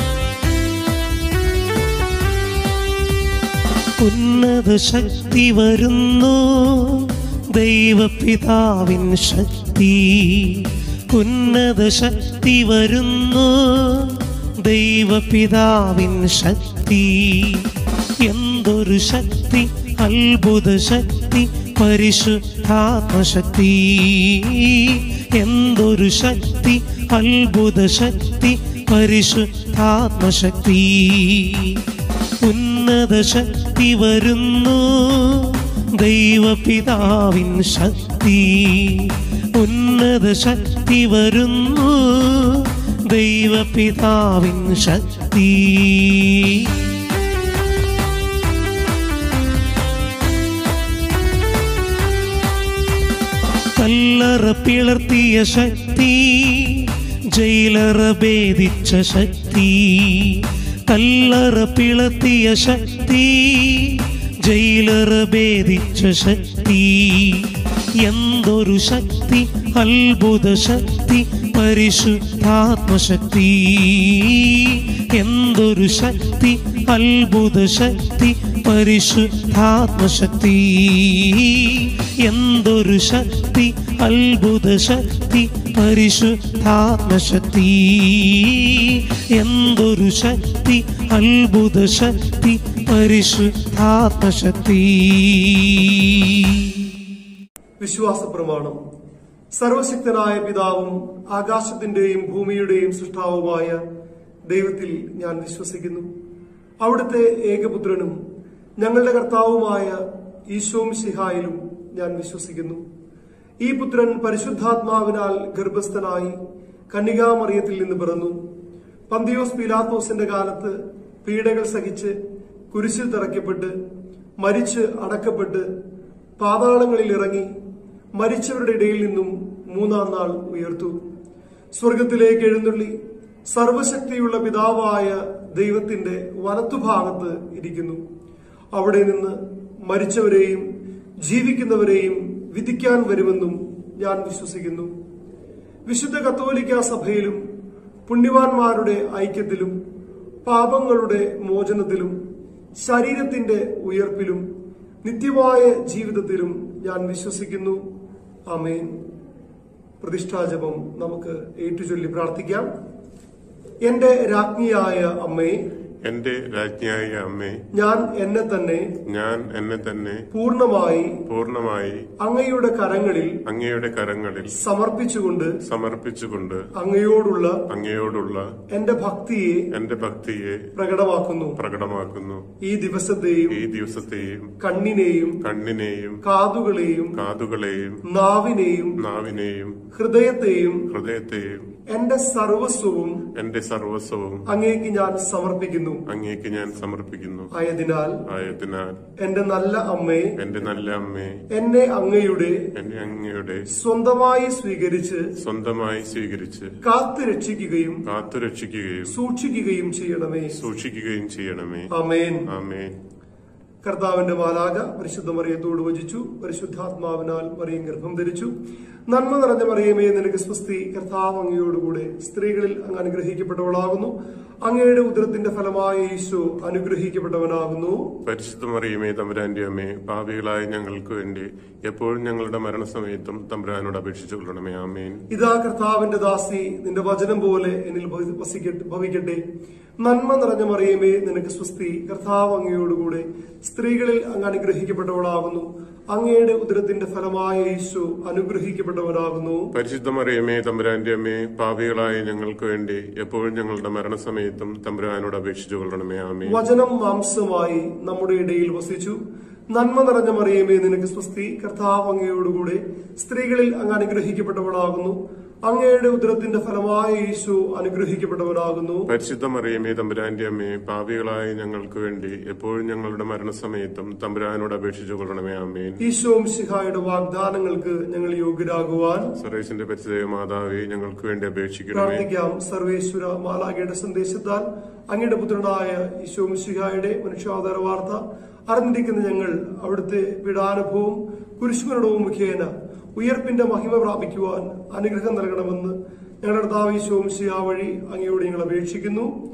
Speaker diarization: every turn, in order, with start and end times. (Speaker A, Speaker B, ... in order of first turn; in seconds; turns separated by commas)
Speaker A: 4.0-17.7, Speaker A: 18.2-31.8, Speaker A: 32.4-46.8, Speaker A: 53.8-96.8, Speaker B: 97.8-98.8, Speaker B: 99.5-103.8, Speaker B: 104.5-106.1, Speaker B: 106.8-108.2, Speaker B: 108.8-110.0, Speaker B: 110.5-112.8, Speaker B: 113.6-116.3, Speaker B: 116.9-118.4, Speaker B: 119.1-120.7, Speaker B: 121.2-122.1, Speaker B: 122.7-123.7, Speaker B: 124.4-125.7, Speaker B: 126.4-127.5, Speaker B: 128.2-130.9, Speaker B: 131.8-132.9, Speaker B: 133.5-138.0, Speaker B: 138.7-139.3, Speaker B: 139.9-140.7, Speaker B: 141.2-144.9, Speaker B: 145.9-147.4, Speaker B: 148.1-149.7, Speaker B: 150.4-152.2, Speaker B: 152.8-154.4, Speaker B: 155.0-157.8, Speaker B: 158.5-158.9, Speaker B: 160.0-162.7, Speaker B: 163.9-165.6, Speaker C: 166.0-167.6, Speaker B: 167.7-168.9, Speaker C: 169.1-170.2, Speaker B: 170.3-171.2, Speaker C: 171.3-172.0, Speaker B: 172.2-173.3, Speaker C: 173.5-174.5, Speaker B: 174.5-175.5, Speaker C: 175.7-176.7, Speaker B: 176.8-177.6, Speaker C: 177.7-178.5, Speaker B: 178.7-179.7, Speaker C: 179.7-180.7, Speaker B: 180.8-181.6, Speaker C: 181.6-182.4, Speaker B: 182.6-183.6, Speaker C: 183.5-184.5, Speaker B: 184.6-185.4, Speaker C: 185.4-186.2, Speaker B: 186.2-187.2, Speaker C: 187.2-188.0, Speaker B: 188.1-188.9, Speaker C: 189.0-189.8, Speaker B: 189.9-190.8, Speaker C: 190.9-191.7, Speaker B: 191.9-193.2, Speaker C: 193.3-194.4, Speaker B: 194.5-196.0, Speaker C: 196.1-197.5, Speaker B: 197.5-198.2, Speaker C: 198.3-199.0, Speaker B: 199.2-200.3, Speaker C: 200.4-201.4, Speaker B: 201.5-202.6, Speaker C: 202.8-203.7, Speaker B: 203.7-205.3, Speaker C: 205.4-206.7, Speaker B: 206.8-208.0, Speaker C: 208.1-209.1, Speaker B: 209.1-210.6, Speaker C: 210.5-211.9, Speaker B: 211.9-212.4, Speaker C: 212.5-212.9, Speaker B: 213.8-218.5, Speaker B: 219.1-224.1, Speaker B: 224.6-228.1, Speaker C: 228.2-235.2, Speaker B: 235.3-239.4, Speaker B: 240.0-249.7, Speaker C: 249.7-256.6, Speaker B: 256.5-259.2, Speaker B: 259.7-269.1, Speaker C: 269.1-276.0, Speaker B: 276.0-279.3, Speaker C: 279.4-282.2, Speaker B: 281.9-299.3